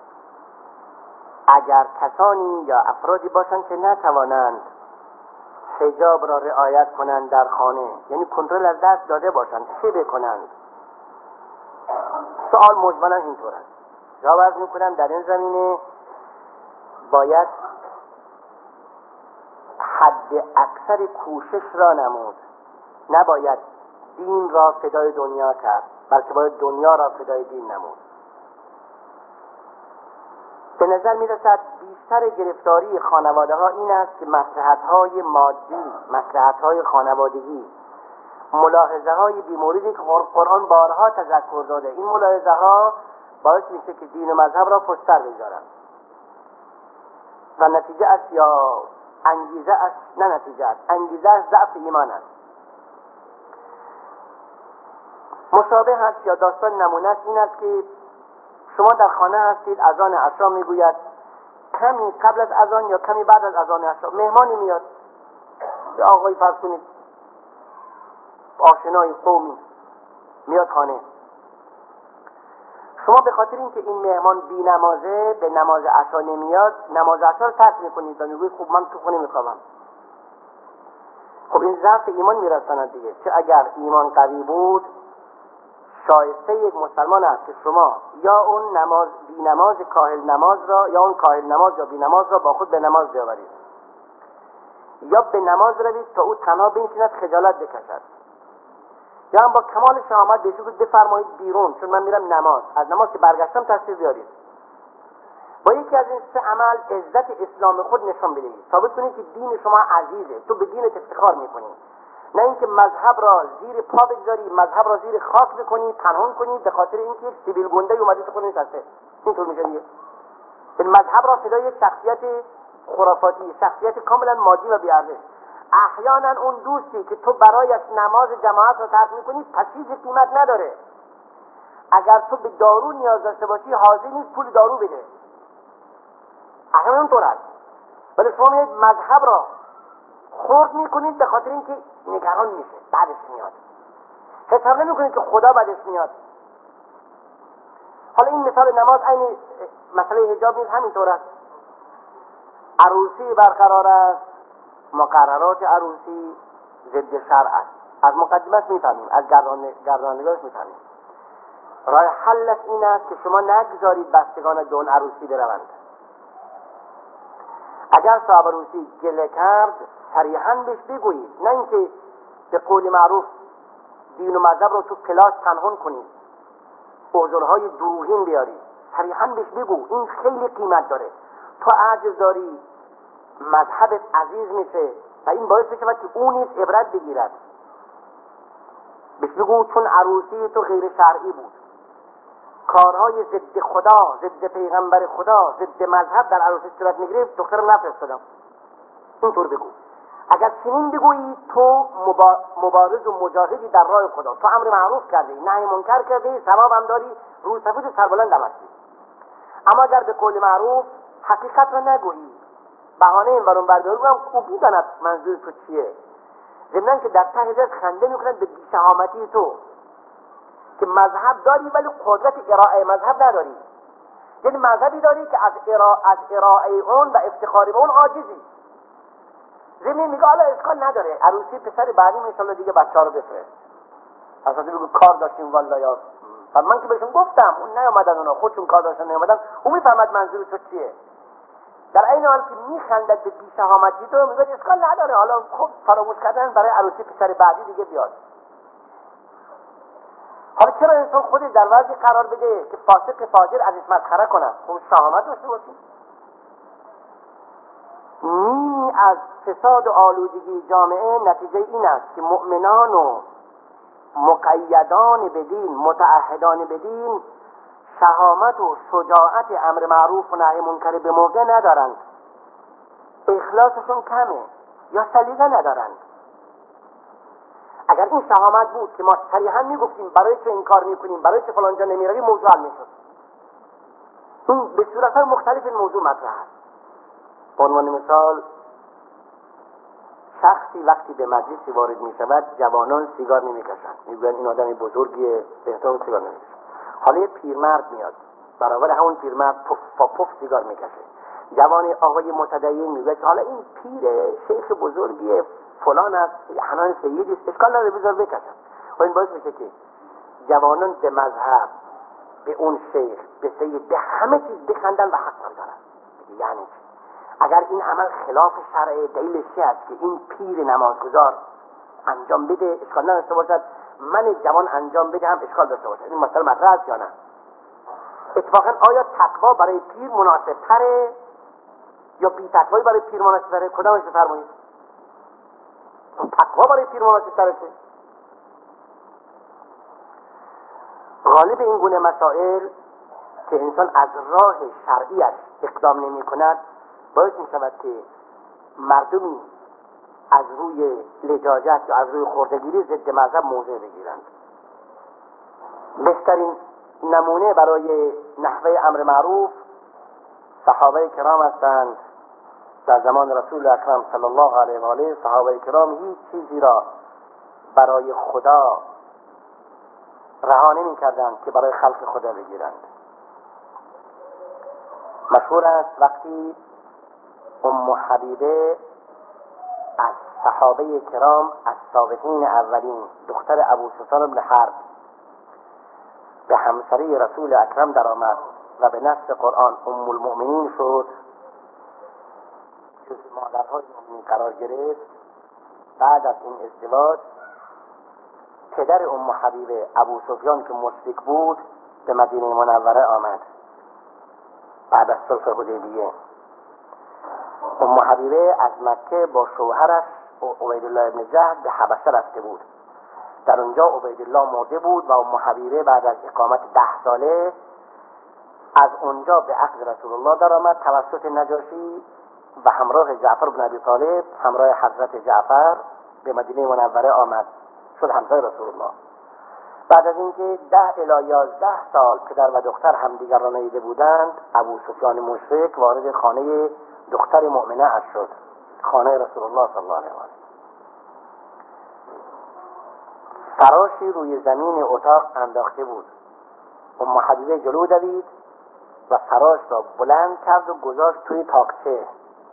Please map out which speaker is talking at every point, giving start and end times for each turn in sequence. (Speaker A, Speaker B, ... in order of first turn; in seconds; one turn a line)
Speaker A: 1.5-4.7
Speaker A: 5.8-10.5
Speaker A: 12.4-13.7
Speaker A: 14.2-15.8
Speaker A: 17.1-17.5
Speaker A: 19.8-22.4
Speaker A: 23.1-23.6
Speaker A: 24.2-28.0
Speaker A: 30.8-37.7
Speaker A: 38.5-45.6
Speaker A: 47.6-52.2
Speaker A: 55.5-57.9
Speaker A: 58.7-61.0
Speaker A: 61.7-64.8
Speaker A: 65.9-66.8
Speaker A: 68.6-69.6
Speaker A: 70.5-71.0
Speaker A: 73.0-79.6
Speaker A: 81.5-84.9
Speaker A: 86.0-93.5
Speaker A: 95.0-98.0
Speaker A: 99.3-104.3
Speaker A: 105.6-111.8
Speaker A: 112.3-119.8
Speaker A: 120.8-125.2
Speaker A: 125.7-130.8
Speaker A: 131.9-135.1
Speaker A: 136.7-137.4
Speaker A: 138.2-139.5
Speaker A: 140.3-143.6
Speaker A: 144.5-146.2
Speaker A: 148.2-151.2
Speaker A: 152.8-154.2
Speaker A: 154.9-160.8
Speaker A: 161.9-165.7
Speaker A: 167.9-171.9
Speaker A: 172.5-173.3
Speaker A: 174.1-176.1
Speaker A: 177.1-182.6
Speaker A: 183.4-187.4
Speaker A: 189.2-191.6
Speaker A: 192.7-198.2
Speaker A: 199.2-199.8
Speaker A: 200.3-208.7
Speaker A: 209.7-212.4
Speaker A: 213.0-216.0
Speaker A: 216.7-219.6
Speaker A: 220.8-223.6
Speaker A: 224.4-228.4
Speaker A: 229.8-233.5
Speaker A: 234.4-241.0
Speaker A: 241.9-248.1
Speaker A: 250.6-255.8
Speaker A: 258.2-263.2
Speaker A: 264.2-267.2
Speaker A: 268.0-272.0
Speaker A: 273.3-276.0
Speaker A: 277.9-282.9
Speaker A: 284.5-286.5
Speaker A: 287.6-288.4
Speaker A: 290.4-309.7
Speaker A: 310.4-311.7
Speaker A: 312.4-316.8
Speaker A: 317.4-321.4
Speaker A: 322.1-327.1
Speaker A: 328.4-331.2
Speaker A: 332.2-334.5
Speaker A: 336.2-337.7
Speaker A: 341.2-342.7
Speaker A: 343.5-346.6
Speaker A: 347.1-348.1
Speaker A: 348.8-349.5
Speaker A: 350.3-354.3
Speaker A: 356.0-359.6
Speaker A: 360.6-362.0
Speaker A: 362.9-366.9
Speaker A: 367.8-368.8
Speaker A: 370.4-372.9
Speaker A: 375.3-376.6
Speaker A: 377.6-378.8
Speaker A: 380.0-384.8
Speaker A: 386.5-391.1
Speaker A: 393.1-395.0
Speaker A: 396.0-397.2
Speaker A: 398.7-403.4
Speaker A: 404.9-406.1
Speaker A: 407.8-412.6
Speaker A: 413.5-417.5
Speaker A: 418.8-422.1
Speaker A: 422.6-428.9
Speaker A: 429.9-440.3
Speaker A: 443.6-446.1
Speaker A: 447.0-448.3
Speaker A: 449.1-452.1